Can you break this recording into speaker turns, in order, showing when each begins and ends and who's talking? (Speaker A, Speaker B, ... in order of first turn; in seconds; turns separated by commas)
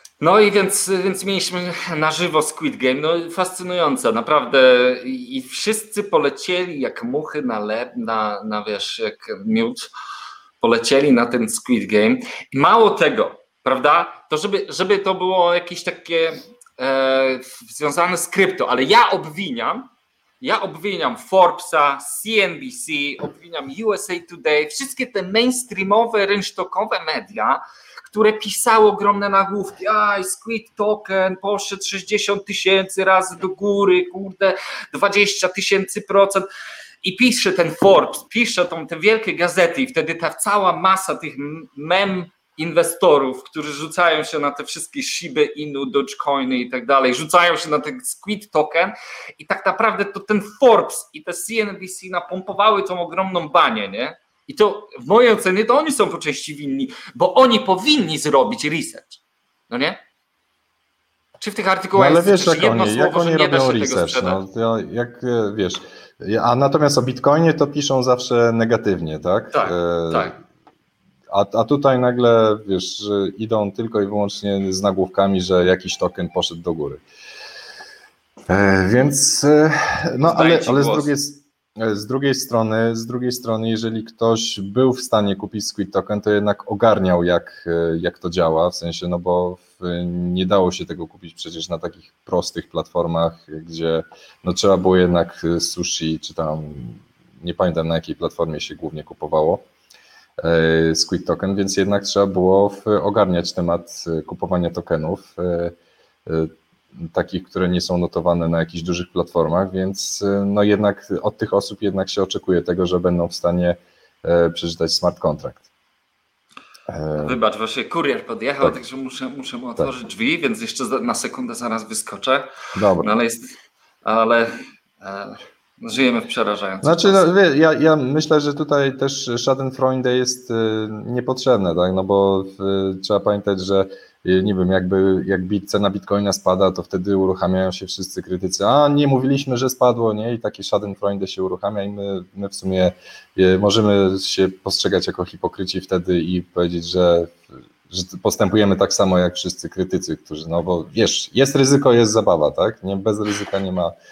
Speaker A: 0.2-9.9, Speaker A: 10.6-19.9, Speaker A: 20.4-36.5, Speaker A: 37.0-60.0, Speaker A: 61.4-64.4, Speaker B: 62.0-70.4, Speaker A: 69.5-70.3, Speaker B: 71.3-77.0, Speaker B: 78.5-99.6, Speaker A: 80.2-81.1, Speaker B: 100.4-105.8, Speaker B: 106.3-115.7, Speaker B: 116.9-117.4, Speaker A: 117.2-127.3, Speaker B: 122.8-123.1, Speaker B: 126.8-153.9